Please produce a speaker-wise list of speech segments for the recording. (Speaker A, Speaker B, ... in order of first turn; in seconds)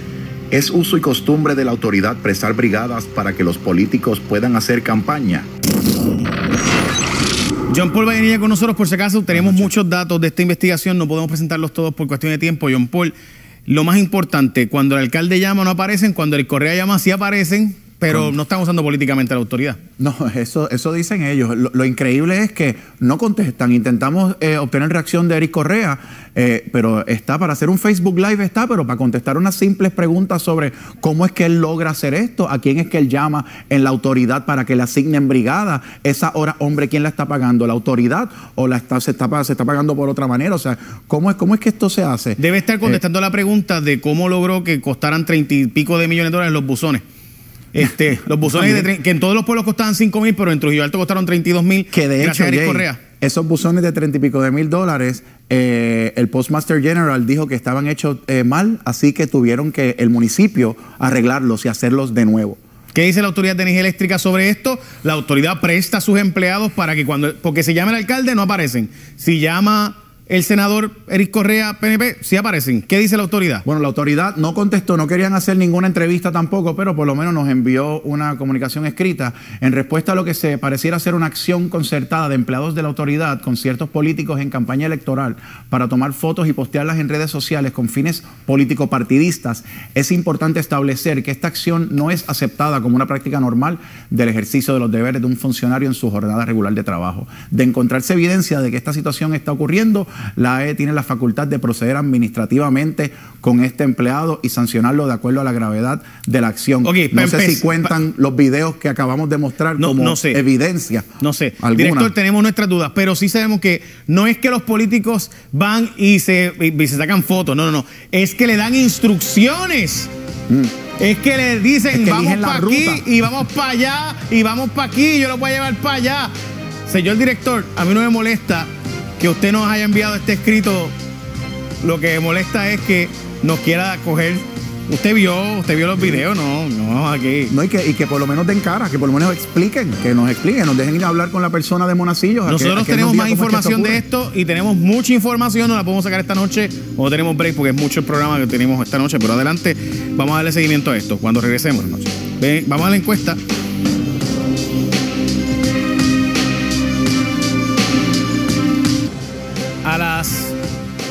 Speaker A: 0.5-5.5
Speaker B: 7.7-13.1, 13.7-19.8, 42.4-47.0, 47.7-53.0, 62.9-73.7, 106.8-108.0, 109.8-110.4, 111.2-120.1, 121.0-126.3, 126.9-128.7, 129.2-130.9, 131.8-137.5, 142.4-153.4, 159.8-160.6
Speaker C: 9.3-9.7, 18.1-18.4, 20.0-43.0, 47.8-48.9, 51.9-62.6, 73.7-111.1, 111.6-112.1, 120.5-120.8, 121.9-123.0, 137.5-144.0